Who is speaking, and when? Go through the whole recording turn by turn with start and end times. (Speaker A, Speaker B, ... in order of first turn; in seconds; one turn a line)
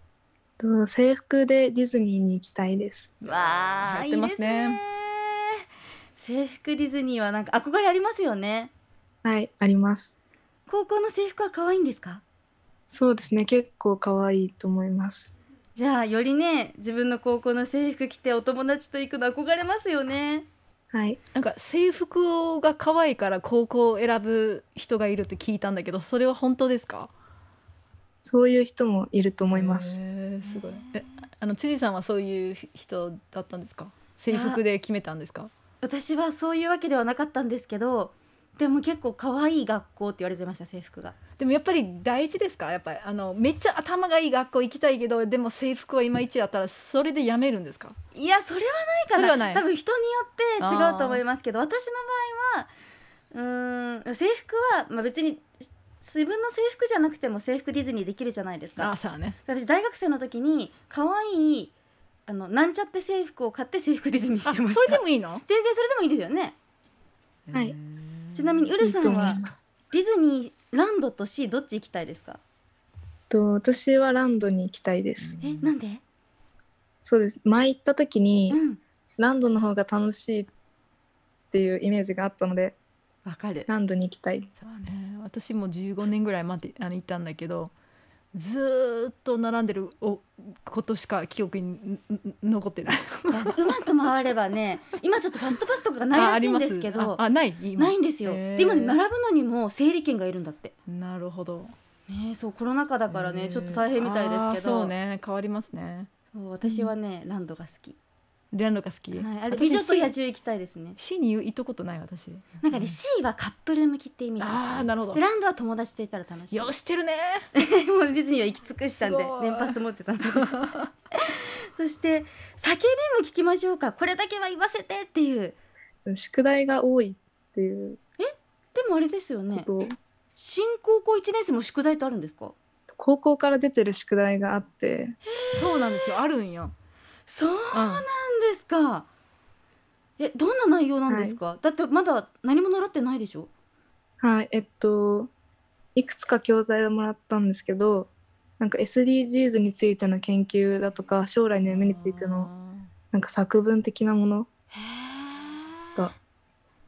Speaker A: 0.6-3.2
Speaker B: 3.2-5.6
Speaker C: 3.2-4.8
Speaker B: 6.2-8.7
Speaker A: 9.2-10.2
Speaker B: 10.7-12.2
Speaker A: 12.9-15.3
Speaker B: 15.8-20.5
Speaker A: 20.9-21.2
Speaker C: 21.4-27.1
Speaker A: 28.2-30.0
Speaker C: 29.5-35.5
Speaker B: 30.4-31.2
Speaker B: 34.3-34.6
Speaker B: 35.8-41.2
Speaker C: 41.4-48.0
Speaker B: 48.1-52.7
Speaker C: 49.1-49.6
Speaker C: 50.6-51.2
Speaker B: 53.3-58.9
Speaker C: 58.8-59.4
Speaker B: 59.5-61.7
Speaker B: 62.3-66.5
Speaker C: 64.5-65.4
Speaker C: 67.5-68.7
Speaker B: 68.3-72.4
Speaker A: 68.8-69.7
Speaker A: 73.3-75.3
Speaker C: 75.2-75.7
Speaker B: 75.4-76.0
Speaker A: 77.0-78.6
Speaker B: 78.5-78.8
Speaker A: 79.2-80.5
Speaker A: 81.5-82.8
Speaker B: 83.3-83.7
Speaker A: 83.7-84.5
Speaker C: 84.6-87.7
Speaker C: 88.3-93.5
Speaker B: 93.3-97.2
Speaker C: 96.1-99.0
Speaker B: 97.8-100.7
Speaker C: 100.9-101.7
Speaker B: 102.1-104.9
Speaker C: 103.1-106.1
Speaker B: 106.3-108.0
Speaker C: 106.6-106.9
Speaker C: 108.5-110.2
Speaker B: 109.1-111.0
Speaker C: 111.0-113.0
Speaker B: 112.6-116.7
Speaker C: 114.4-115.2
Speaker C: 116.5-117.5
Speaker B: 117.6-125.6
Speaker C: 119.0-119.8
Speaker C: 120.3-120.9
Speaker A: 126.1-128.0
Speaker B: 128.2-129.7
Speaker A: 129.5-129.9
Speaker B: 130.4-132.6
Speaker A: 132.9-135.2
Speaker B: 135.3-136.2
Speaker C: 135.5-136.7
Speaker B: 137.3-139.1
Speaker C: 137.7-138.1
Speaker B: 140.2-143.5
Speaker A: 141.1-141.4
Speaker A: 144.2-145.3
Speaker A: 145.9-152.5
Speaker C: 151.6-152.9
Speaker A: 153.1-154.5
Speaker B: 154.7-156.1